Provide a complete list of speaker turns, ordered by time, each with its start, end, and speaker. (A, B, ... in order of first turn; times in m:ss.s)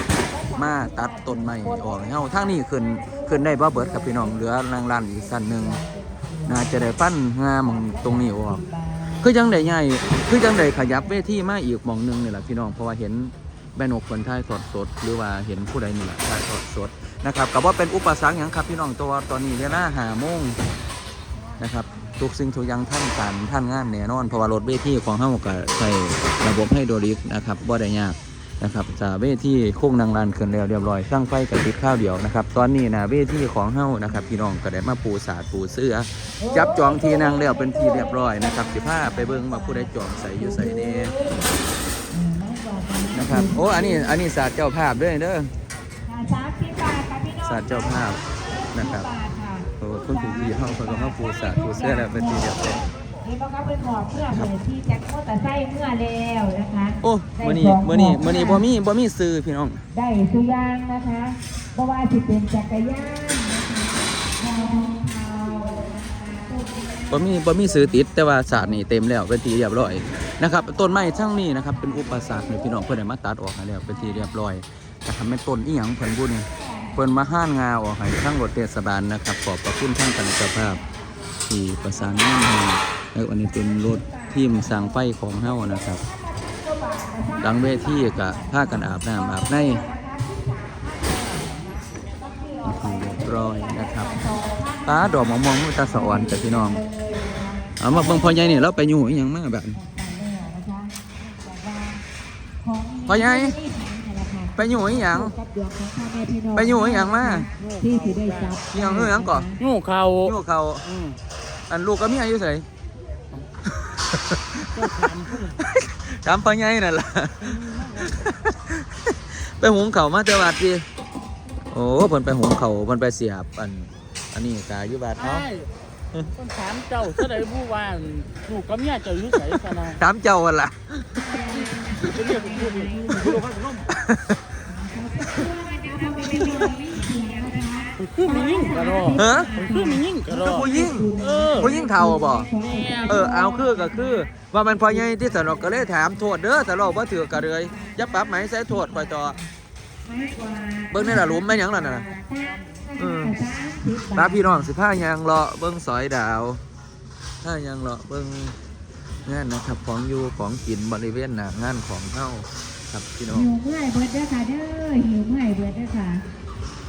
0:00.1-0:07.0 A
0:00.6-0:05.8 B
0:06.5-0:08.6 B
0:07.6-0:11.2 A
0:09.2-0:20.6 B
0:21.6-0:41.1 B
0:36.4-0:41.5 A
0:42.1-0:44.2 A
0:43.1-0:45.5 B
0:46.0-0:52.6 A
0:47.4-0:48.2 B
0:48.7-0:49.1 B
0:49.8-0:52.9 B
0:53.2-0:58.6 A
0:57.0-0:59.8 B
0:59.9-1:08.5 A
1:07.1-1:20.8 B
1:10.6-1:12.9 A
1:13.9-1:14.3 A
1:16.4-1:17.1 A
1:21.5-1:26.0 B
1:23.5-1:38.7 A
1:27.4-1:29.8 B
1:32.7-1:34.1 B
1:34.9-1:36.8 B
1:37.8-1:39.8 B
1:39.7-1:42.0 A
1:42.6-1:49.6 A
1:43.1-1:43.6 B
1:44.6-1:45.3 B
1:46.5-1:47.5 B
1:48.7-1:49.5 B
1:49.6-1:50.2 C
1:50.1-1:51.0 B
1:51.7-1:52.7 B
1:53.6-2:00.8 B
1:54.9-1:55.3 C
2:01.7-2:05.5 B
2:06.4-2:09.8 C
2:09.8-2:11.3 B
2:11.2-2:13.4 A
2:13.2-2:14.5 B
2:14.6-2:24.3 A
2:16.3-2:16.7 B
2:18.7-2:19.0 C
2:19.1-2:19.6 B
2:19.6-2:20.4 C
2:20.3-2:22.5 B
2:23.1-2:29.4 B
2:25.0-2:29.5 A
2:30.0-2:34.7 A
2:30.9-2:32.1 B
2:33.0-2:33.3 B
2:34.2-2:36.6 B
2:37.4-2:38.6 B
2:39.2-2:43.5 B
2:43.3-2:46.2 A